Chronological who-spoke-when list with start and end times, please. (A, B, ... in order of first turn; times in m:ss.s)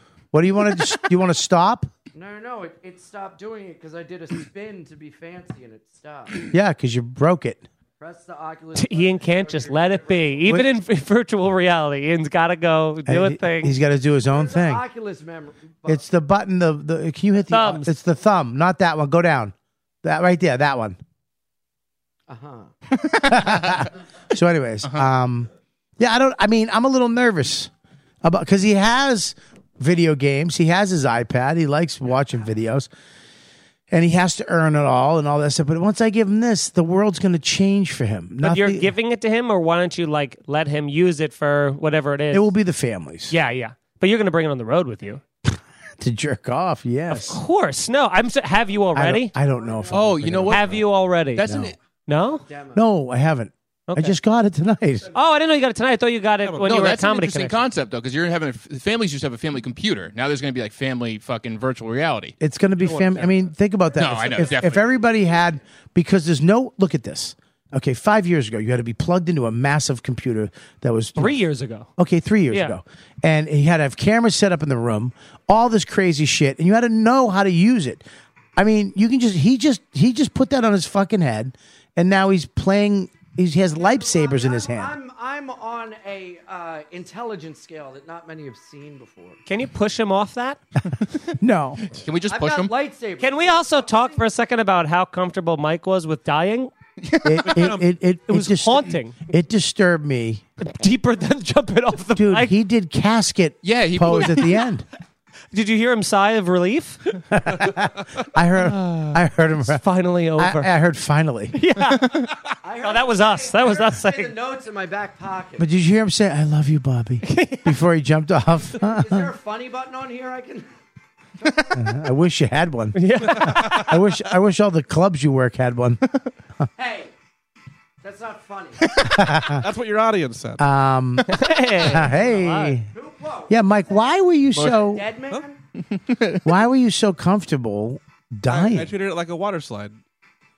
0:00.3-0:01.9 A
0:02.1-0:06.4 B
0:06.5-0:07.6 A
0:08.0-0:10.5 B
0:08.7-0:13.8 C
0:13.1-0:14.8 A
0:14.3-0:16.0 B
0:15.8-0:21.0 A
0:17.5-0:17.9 C
0:22.3-0:22.7 B
0:23.0-0:23.8 D
0:23.2-0:27.7 A
0:28.2-0:32.9 A
0:33.9-0:38.9 A
0:38.4-0:42.5 C
0:42.3-0:43.3 A
0:43.3-0:45.2 C
0:45.5-0:47.4 A
0:47.1-0:49.3 C
0:48.9-0:50.7 A
0:49.9-0:51.7 D
0:50.5-0:51.4 C
0:51.4-0:51.7 A
0:52.1-0:52.4 C
0:52.4-0:52.8 B
0:52.7-0:55.1 A
0:53.9-0:54.2 C
0:55.1-0:57.6 C
0:56.4-0:56.8 E
0:56.6-1:02.3 D
1:02.4-1:11.4 A
1:02.8-1:03.4 E
1:04.0-1:04.9 D
1:11.2-1:11.9 C
1:12.0-1:18.0 A
1:12.5-1:12.8 C
1:18.6-1:24.9 A
1:23.7-1:29.4 B
1:29.5-1:30.6 C
1:31.4-1:31.8 A
1:31.9-1:32.7 D
1:32.3-1:34.2 B
1:33.2-1:36.7 C
1:37.0-1:37.7 D
1:37.2-1:40.4 A
1:37.4-1:37.8 E
1:38.3-1:39.2 C
1:40.6-1:42.5 C
1:42.2-1:44.8 A
1:43.6-1:44.6 D
1:45.5-1:47.2 C
1:47.3-1:49.8 A
1:48.6-1:50.7 C
1:50.4-1:51.6 A
1:51.5-1:54.3 C
1:51.8-1:52.3 D
1:52.6-1:55.7 B
1:55.6-1:59.3 A
1:57.2-1:57.8 C
1:58.7-2:00.7 B
2:01.4-2:01.9 B
2:01.7-2:06.0 A
2:02.9-2:04.0 C
2:03.3-2:03.8 E
2:06.8-2:07.1 B
2:08.0-2:08.9 B
2:08.9-2:09.6 A
2:09.4-2:10.6 E
2:10.6-2:11.3 A
2:11.3-2:12.8 C
2:11.8-2:12.9 A
2:12.9-2:14.1 B
2:13.5-2:15.0 A
2:14.5-2:14.8 D
2:14.6-2:15.6 B
2:15.8-2:16.4 D
2:16.4-2:18.9 A
2:18.5-2:20.0 E